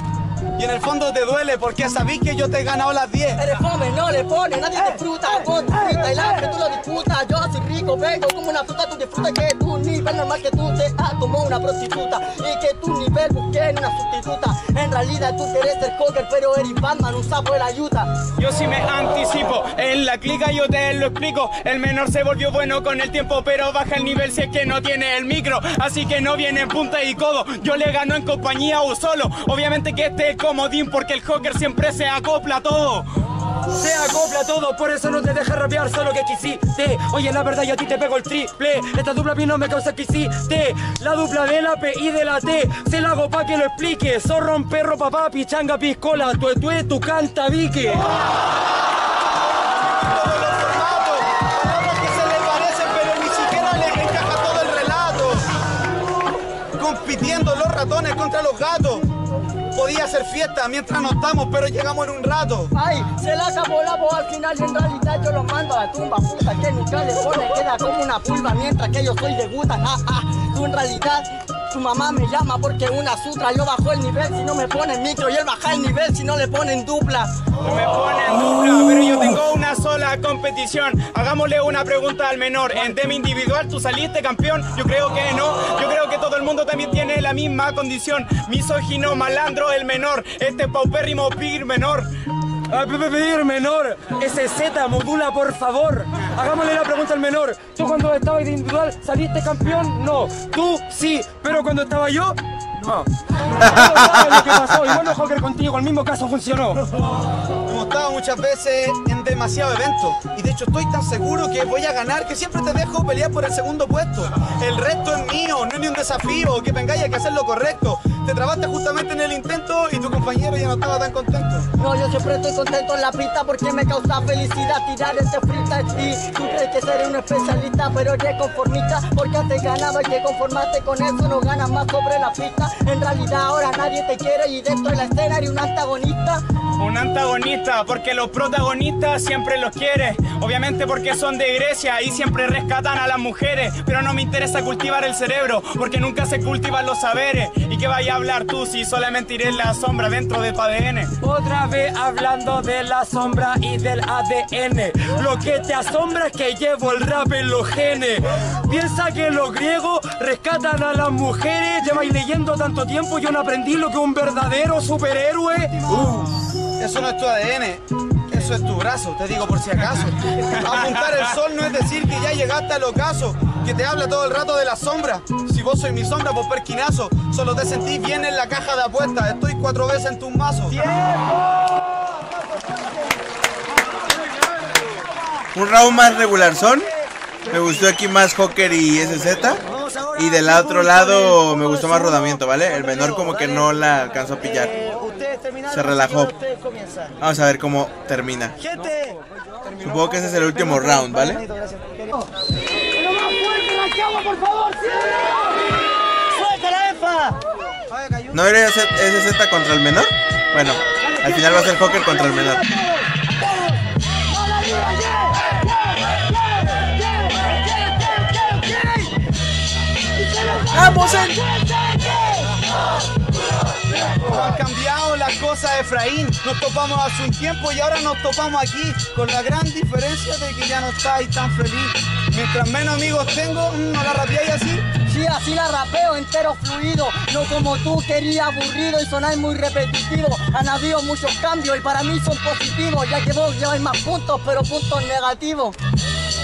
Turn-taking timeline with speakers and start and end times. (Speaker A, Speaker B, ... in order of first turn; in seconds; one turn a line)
Speaker A: 0.6-3.4
Speaker B: 3.4-18.1
Speaker C: 18.4-33.1
Speaker D: 33.7-48.0
Speaker A: 49.8-55.5
Speaker A: 56.8-59.1
Speaker A: 59.7-62.7
Speaker B: 62.7-77.3
Speaker C: 77.6-92.1
Speaker D: 92.7-106.8
Speaker E: 103.6-104.3
Speaker A: 107.7-121.7
Speaker B: 121.8-136.4
Speaker C: 136.8-151.1
Speaker D: 151.2-165.9
Speaker A: 165.9-180.9
Speaker C: 170.5-171.0
Speaker E: 185.5-186.9
Speaker E: 187.5-194.8
Speaker E: 195.6-196.3
Speaker E: 197.2-198.6
Speaker D: 198.8-199.1
Speaker E: 199.8-201.5
Speaker B: 203.1-205.4
Speaker B: 206.3-207.3
Speaker E: 208.3-212.9
Speaker B: 214.3-215.4
Speaker B: 216.2-219.1
Speaker B: 220.3-220.7
Speaker E: 220.7-221.4
Speaker B: 221.5-222.5
Speaker A: 224.1-234.9
Speaker B: 235.0-245.8